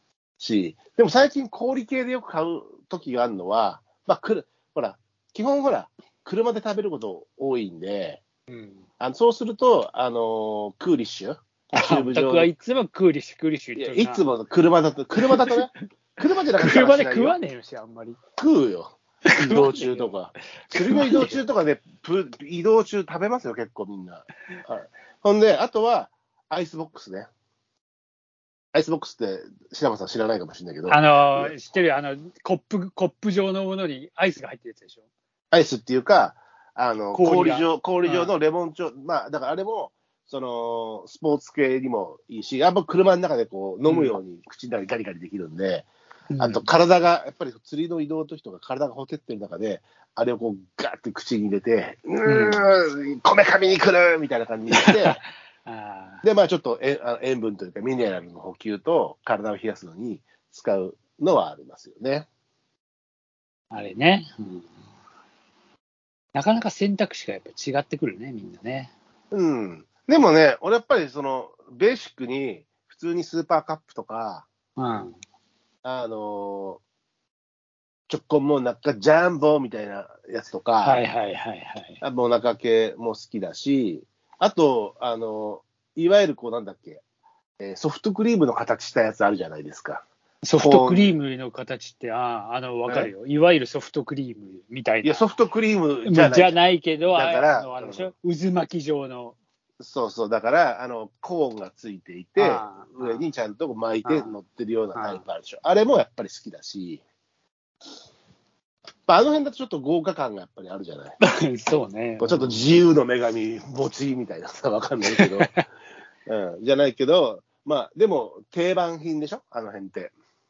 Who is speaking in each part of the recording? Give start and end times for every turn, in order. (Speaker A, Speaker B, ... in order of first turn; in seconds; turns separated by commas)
Speaker A: 0.4-8.2, Speaker B: 8.5-8.8, Speaker A: 9.0-12.5, Speaker B: 11.7-14.3, Speaker A: 13.8-17.4, Speaker B: 15.2-15.6, Speaker B: 16.6-18.2, Speaker A: 18.4-27.3, Speaker B: 19.3-21.4, Speaker A: 28.7-31.5, Speaker B: 30.9-35.0, Speaker A: 35.5-45.9, Speaker B: 37.1-38.3, Speaker B: 43.9-44.2, Speaker B: 46.3-46.6, Speaker A: 46.4-55.2, Speaker B: 52.2-52.6, Speaker B: 54.7-56.2, Speaker A: 56.2-62.3, Speaker B: 63.7-64.7, Speaker B: 66.3-68.9, Speaker A: 69.3-74.5, Speaker B: 74.8-75.2, Speaker A: 75.8-76.8, Speaker A: 78.1-81.0, Speaker B: 80.8-82.0, Speaker A: 82.0-87.0, Speaker A: 87.6-90.0, Speaker B: 90.4-95.3, Speaker A: 90.6-91.2, Speaker A: 95.0-96.6, Speaker B: 96.0-99.4, Speaker A: 97.1-98.1, Speaker A: 99.8-107.0, Speaker B: 102.4-103.2, Speaker B: 104.0-104.3, Speaker B: 104.9-105.2, Speaker A: 109.1-111.2, Speaker B: 111.2-112.7, Speaker A: 112.2-115.5, Speaker B: 115.1-115.6, Speaker A: 116.3-120.1